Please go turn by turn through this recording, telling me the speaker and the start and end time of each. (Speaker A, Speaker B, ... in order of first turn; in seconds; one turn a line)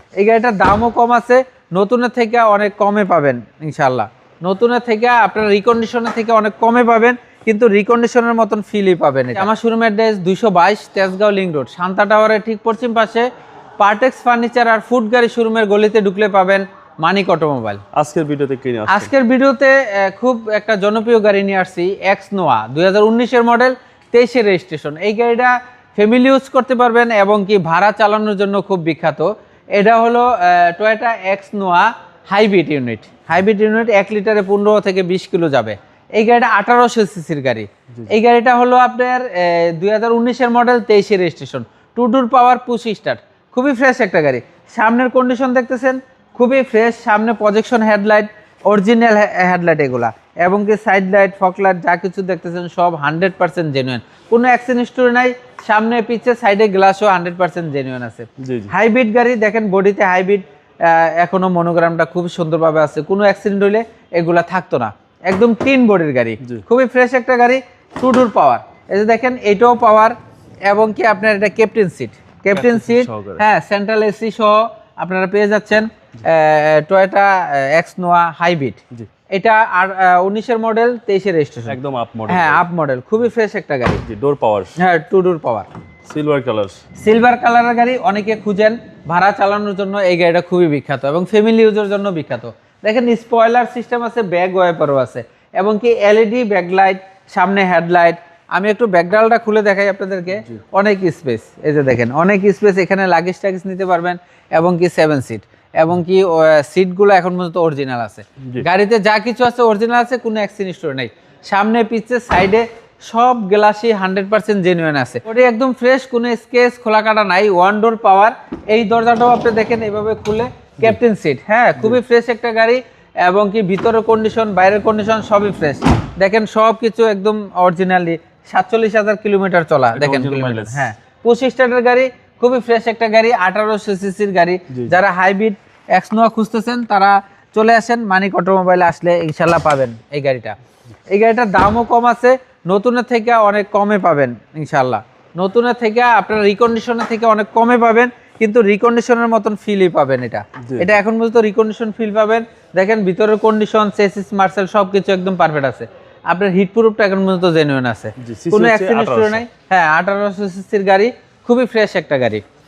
Speaker A: 0.1-13.3
Speaker A: 13.8-17.8
Speaker B: 17.9-19.1
Speaker A: 18.9-70.1
Speaker B: 58.4-58.7
Speaker A: 70.7-84.0
Speaker B: 72.5-73.4
Speaker B: 81.7-82.6
Speaker B: 84.0-84.7
Speaker A: 84.8-85.7
Speaker B: 86.0-86.8
Speaker A: 87.0-140.6
Speaker B: 129.9-130.8
Speaker A: 141.1-162.4
Speaker B: 150.7-150.9
Speaker B: 158.2-159.4